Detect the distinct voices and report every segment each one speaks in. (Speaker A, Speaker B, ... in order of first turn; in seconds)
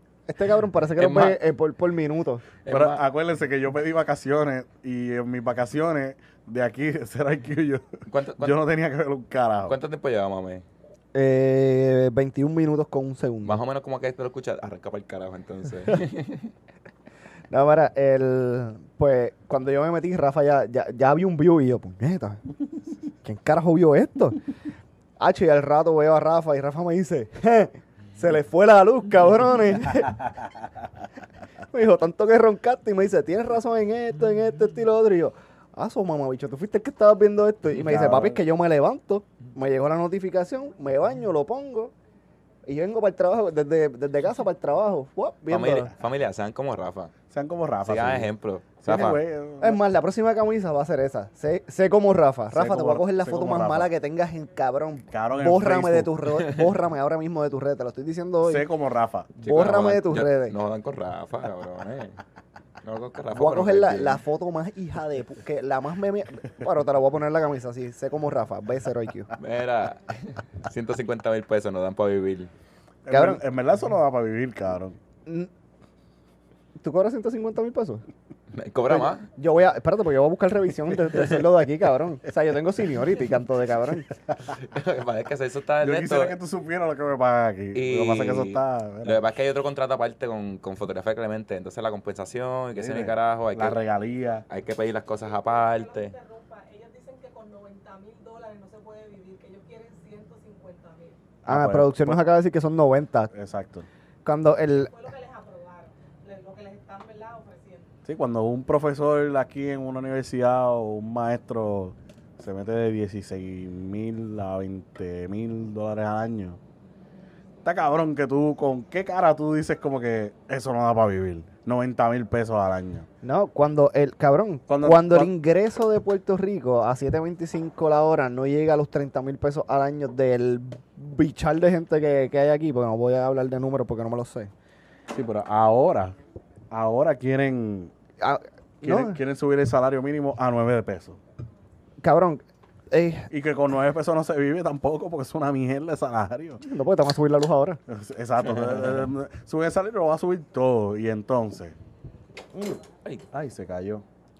Speaker A: 0.3-2.5, 11.1-13.6, 17.5-22.4, 23.2-24.4, 25.2-30.4, 31.7-41.9, 42.6-45.9, 49.6-58.7, 59.4-60.5, 63.3-69.3, 73.1-73.4, 76.8-78.0, 78.9-84.1, 101.5-103.3, 104.2-104.9, 123.2-134.5, 138.2-139.2, 142.0-143.3, 146.6-147.8, 152.5-152.8
Speaker B: 1.0-1.4, 2.6-3.0, 8.1-8.6, 9.7-10.6, 13.4-16.5, 45.5-47.1, 47.8-49.2, 59.4-62.2, 62.8-64.2, 69.4-72.5, 78.5-79.3, 84.4-86.4, 87.7-93.8, 94.5-96.1, 148.4-149.0
Speaker C: 2.7-9.8, 37.8-38.4, 47.3-49.8, 52.5-53.9, 55.1-56.2, 58.4-59.3, 73.0-75.0, 85.8-89.2, 92.7-94.4, 101.4-102.3, 103.3-103.9, 108.0-116.6, 117.6-123.1, 124.7-125.3, 135.1-136.1, 136.7-137.9, 138.8-141.2, 143.3-146.6, 147.9-151.8, 153.3-154.0
Speaker D: 95.2-101.2, 104.7-107.9